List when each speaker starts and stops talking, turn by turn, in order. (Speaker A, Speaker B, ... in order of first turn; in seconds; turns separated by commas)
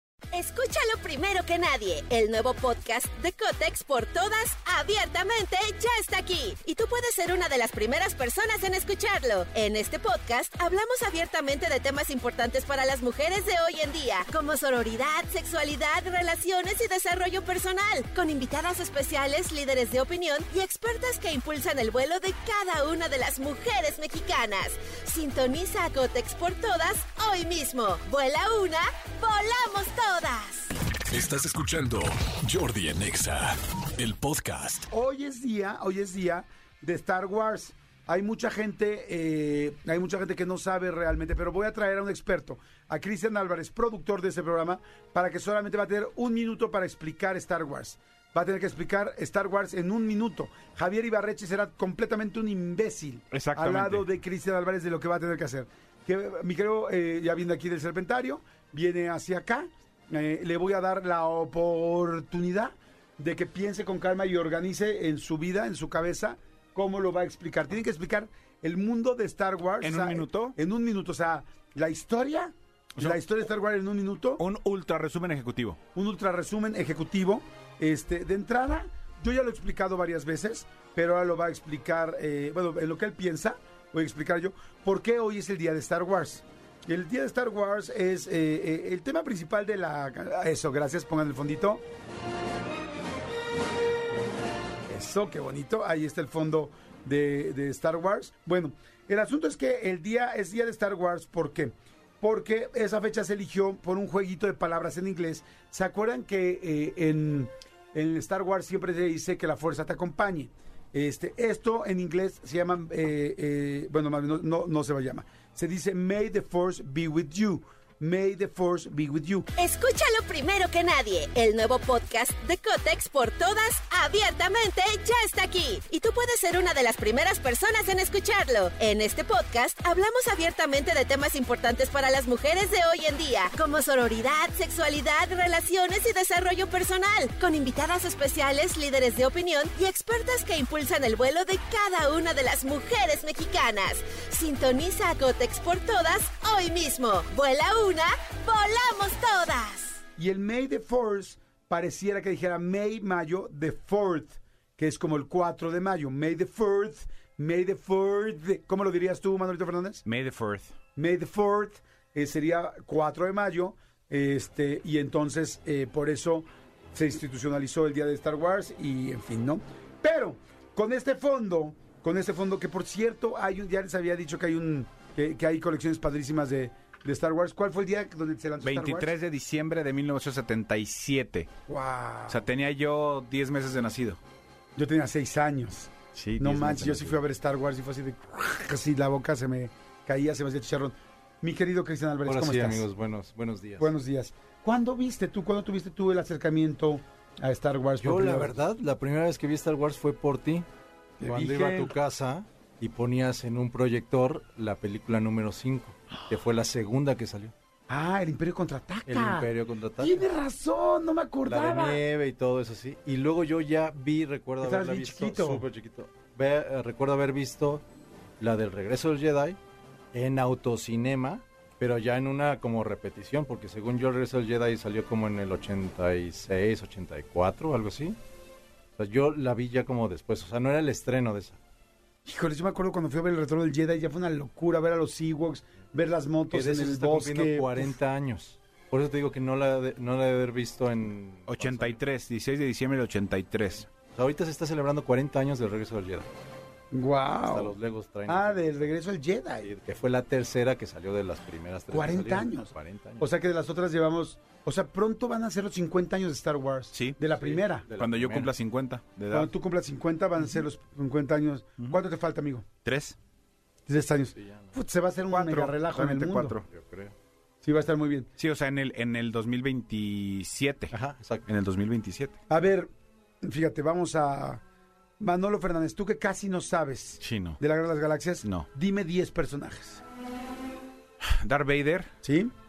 Speaker A: 0.3-30.7, Speaker B: 31.2-32.0, Speaker B: 32.5-33.3, Speaker B: 34.0-34.6, Speaker C: 34.9-74.4, Speaker D: 53.3-54.0, Speaker D: 69.8-70.5, Speaker D: 73.0-73.2, Speaker D: 74.4-75.8, Speaker C: 75.9-91.8, Speaker C: 94.9-119.5, Speaker A: 119.5-150.0, Speaker C: 150.2-160.0, Speaker D: 160.0-160.7, Speaker C: 160.9-179.1, Speaker D: 178.6-181.5, Speaker C: 181.7-182.4, Speaker D: 182.3-184.2, Speaker C: 184.8-192.8, Speaker D: 186.1-187.2, Speaker E: 192.2-193.9, Speaker C: 193.8-198.5, Speaker E: 198.0-200.7, Speaker C: 201.2-201.9, Speaker E: 201.2-207.5, Speaker C: 207.9-212.0, Speaker E: 209.1-210.3, Speaker E: 211.4-217.8, Speaker C: 214.6-215.7, Speaker E: 218.4-219.6, Speaker E: 220.1-228.2, Speaker E: 229.0-231.6, Speaker C: 232.2-237.9, Speaker E: 236.5-242.0, Speaker D: 241.5-243.9, Speaker E: 244.1-246.3, Speaker C: 246.9-247.7, Speaker E: 247.5-248.9, Speaker C: 248.3-249.7, Speaker E: 249.6-253.3, Speaker C: 251.9-257.9, Speaker D: 256.9-257.2, Speaker E: 257.4-258.5, Speaker D: 258.0-259.5, Speaker C: 259.3-262.6, Speaker D: 262.8-263.1, Speaker C: 263.9-266.6, Speaker E: 264.3-264.7, Speaker D: 265.3-266.6, Speaker E: 266.7-267.1, Speaker C: 267.6-268.3, Speaker D: 268.4-270.9, Speaker E: 270.9-271.4, Speaker D: 271.4-272.4, Speaker C: 272.5-272.9, Speaker C: 273.4-274.6, Speaker C: 275.2-280.0, Speaker D: 277.2-277.6, Speaker D: 278.4-278.7, Speaker D: 281.4-282.1, Speaker C: 282.2-282.5